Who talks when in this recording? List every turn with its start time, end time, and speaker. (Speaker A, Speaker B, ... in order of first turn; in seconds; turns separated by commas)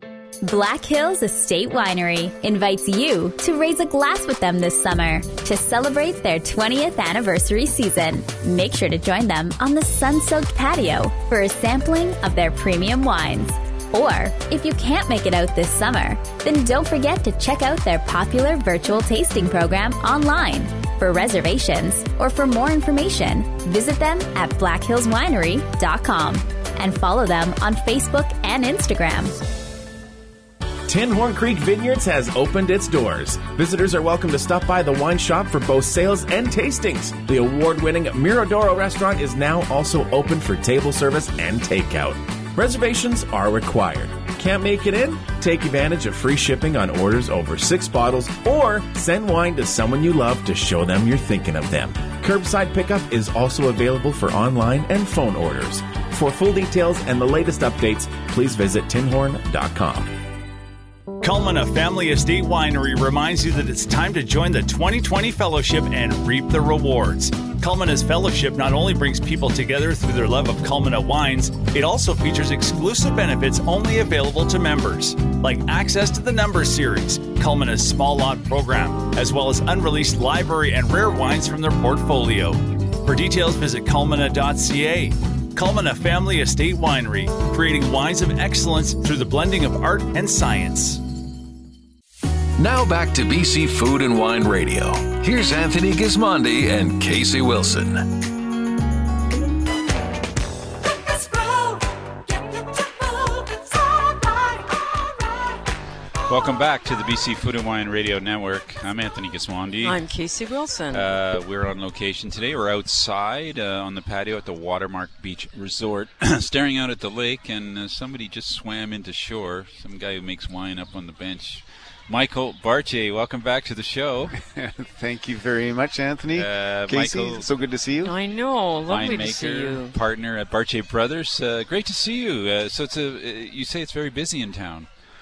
Speaker A: 0.4-29.4, Speaker B: 30.9-60.1, Speaker C: 61.2-91.0, Speaker D: 92.6-98.1, Speaker E: 106.3-110.1, Speaker F: 109.8-111.1, Speaker E: 110.9-124.3, Speaker G: 124.3-128.1, Speaker E: 126.3-127.5, Speaker F: 128.0-129.9, Speaker E: 128.8-134.9